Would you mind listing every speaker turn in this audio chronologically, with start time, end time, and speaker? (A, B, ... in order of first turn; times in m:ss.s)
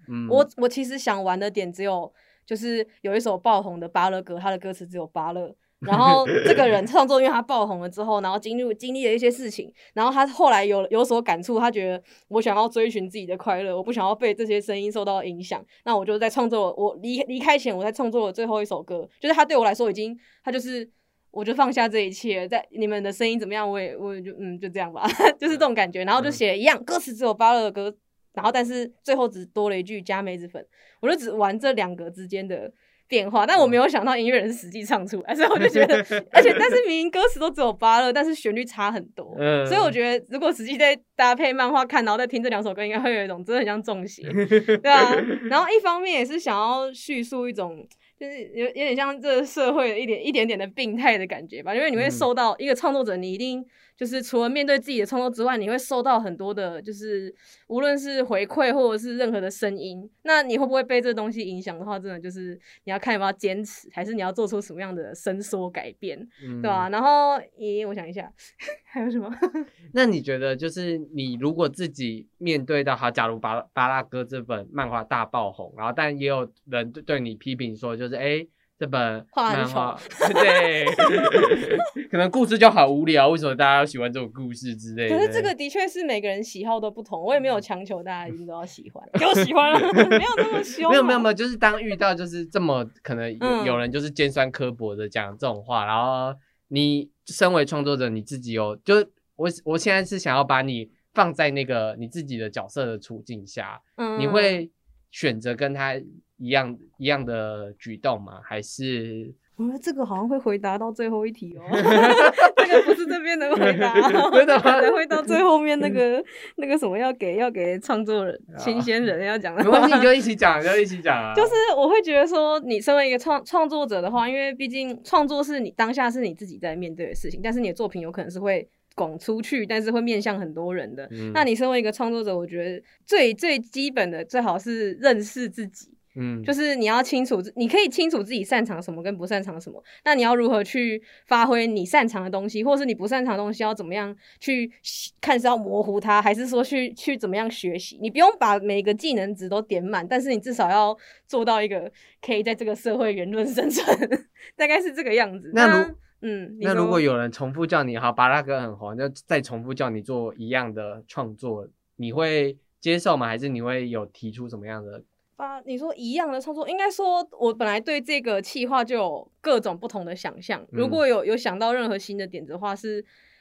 0:00.1-0:00.5 A
0:00.3-1:09.7 B
0:05.8-0:06.6 A
0:35.6-0:36.6 A
0:39.3-0:40.0 A
0:44.3-0:45.5 A
0:52.0-0:52.3 A
1:06.4-1:06.9 A
1:09.9-1:25.5 A
1:19.3-1:21.4 B
1:25.1-1:31.3 B
1:30.9-1:49.4 A
1:33.4-1:33.8 B
1:44.0-1:44.6 B
1:49.6-2:00.1 B
1:51.8-1:52.6 A
1:53.6-1:55.3 A
1:58.5-1:58.9 A
1:59.6-2:01.6 A
2:01.4-2:37.0 B
2:11.1-2:11.4 A
2:16.2-2:16.5 A
2:35.5-2:35.9 A
2:36.6-2:45.0 A
2:45.4-2:53.1 B
2:50.7-2:51.0 A